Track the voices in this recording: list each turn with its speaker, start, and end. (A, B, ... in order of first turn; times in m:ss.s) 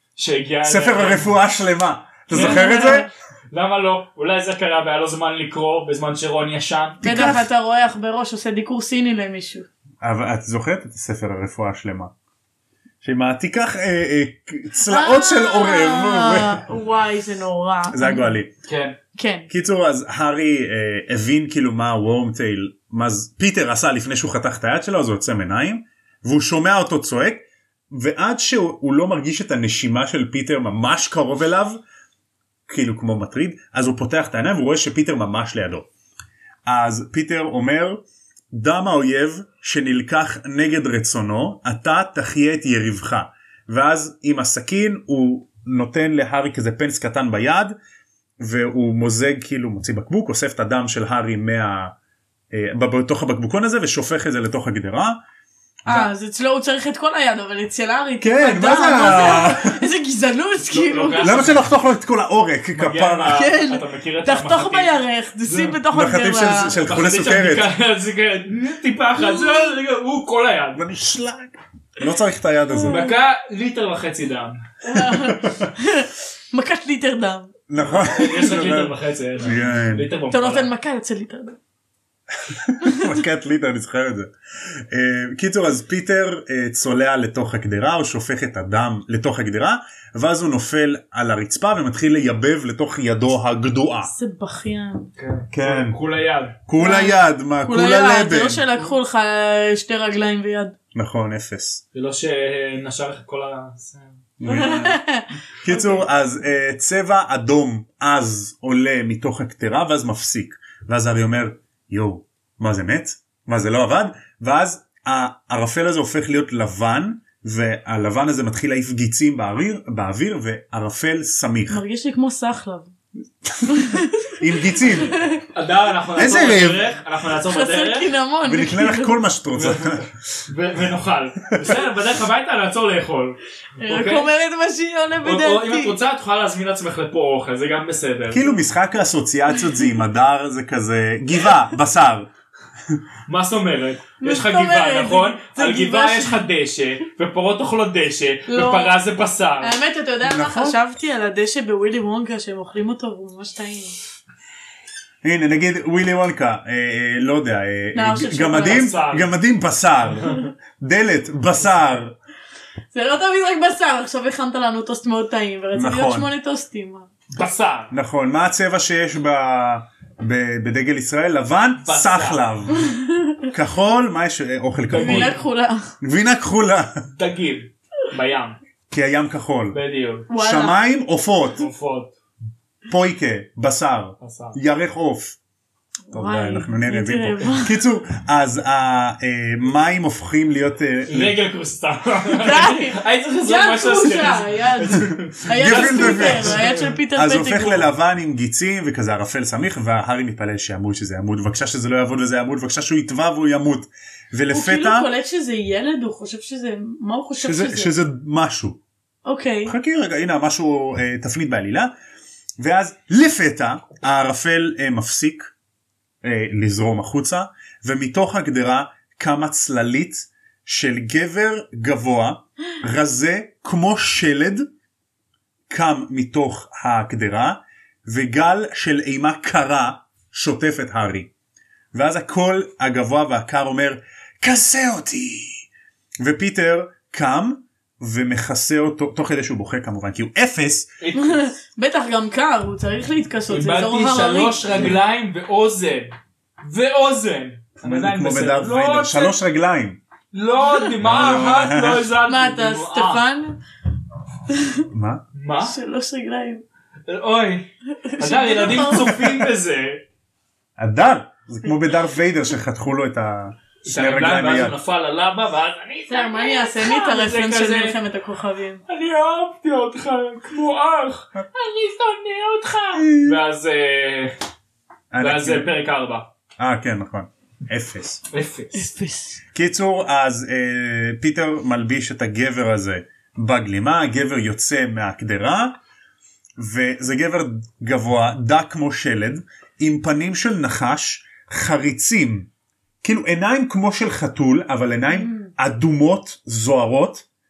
0:00.2-0:01.3 A
0:00.6-0:03.1 B
0:02.3-0:03.1 C
0:02.3-0:07.3 A
0:07.0-0:07.5 B
0:07.0-0:09.7 C
0:10.0-0:12.1 B
0:13.0-0:16.6 B
0:14.9-0:18.4 C
0:17.9-0:18.5 B
0:18.6-0:19.0 A
0:19.1-0:19.5 C
0:19.5-0:31.8 B
0:32.7-0:35.9 B
0:36.6-0:47.7 B
0:48.4-0:51.9 B
0:52.5-0:55.2 B
0:55.8-0:56.1 B
0:55.9-1:01.4 C
0:58.2-0:59.8 B
1:00.7-1:01.7 A
1:01.2-1:03.4 B
1:02.7-1:05.8 A
1:03.2-1:06.8 C
1:05.9-1:07.7 B
1:06.8-1:10.8 A
1:09.2-1:09.6 C
1:10.7-1:13.0 B
1:12.7-1:13.1 C
1:12.9-1:14.6 A
1:14.8-1:17.5 C
1:15.0-1:15.7 B
1:17.7-1:20.1 B
1:17.8-1:20.7 A
1:20.3-1:21.6 C
1:22.4-1:34.1 B
1:22.8-1:23.1 C
1:34.0-1:35.1 C
1:35.2-1:36.6 A
1:35.5-1:36.0 B
1:36.7-1:38.6 B
1:36.8-1:40.8 C
1:40.9-1:41.8 B
1:41.9-1:44.2 A
1:44.4-1:45.0 B
1:44.4-1:46.0 C
1:45.6-2:01.8 B
2:01.7-2:02.9 C
2:03.4-2:05.2 B
2:03.6-2:05.4 C
2:05.5-2:08.1 A
2:06.2-2:06.8 B
2:07.4-2:09.2 C
2:08.4-2:10.1 B
2:09.5-2:14.3 A
2:13.8-2:16.0 C
2:15.2-2:18.6 A
2:18.3-2:22.3 B
2:23.3-2:29.7 A
2:24.2-2:26.4 C
2:28.5-2:29.0 C
2:29.6-2:34.0 C
2:30.2-2:30.8 B
2:35.2-2:42.1 B
2:37.9-2:38.9 C
2:38.5-2:39.3 A
2:42.9-2:47.1 C
2:45.7-2:46.3 B
2:47.3-2:47.9 A
2:47.9-2:52.8 B
2:51.8-2:52.4 A
2:52.8-2:53.5 C
2:53.5-2:55.4 B
2:54.9-2:55.4 A
2:55.0-2:55.9 C
2:56.0-2:57.0 B
2:57.1-2:58.6 A
2:58.9-2:59.8 B
2:59.7-3:00.3 A
3:00.3-3:00.8 C
3:00.3-3:01.7 B
3:01.6-3:02.1 A
3:02.9-3:05.4 B
3:04.2-3:04.6 A
3:06.1-3:07.8 C
3:06.1-3:11.4 B
3:11.0-3:16.9 A
3:12.4-3:17.8 C
3:15.5-3:25.1 B
3:24.5-3:27.9 C
3:27.4-3:28.8 B
3:29.2-3:29.7 C
3:29.6-3:31.9 B
3:32.6-3:35.5 B
3:36.2-3:44.7 B
3:45.7-3:51.3 B
3:51.9-3:55.6 B
3:56.2-4:01.0 B
4:01.0-4:01.5 A
4:01.1-4:04.9 C
4:03.5-4:09.4 A
4:07.8-4:10.0 B
4:10.3-4:13.2 A
4:11.0-4:12.1 B
4:12.3-4:13.6 C
4:14.5-4:14.8 C
4:14.9-4:15.2 B
4:15.3-4:15.8 A
4:15.6-4:16.6 C
4:17.1-4:20.0 A
4:18.0-4:19.4 C
4:20.8-4:24.7 B
4:23.8-4:28.0 A
4:26.1-4:28.8 C
4:28.9-4:34.3 A
4:33.0-4:33.4 B
4:35.1-4:35.7 B
4:35.2-4:36.3 A
4:36.6-4:38.2 B
4:38.3-4:38.9 A
4:38.7-4:39.4 C
4:39.5-4:45.8 B
4:46.6-4:52.5 B
4:53.0-4:57.2 B
4:55.1-4:55.5 C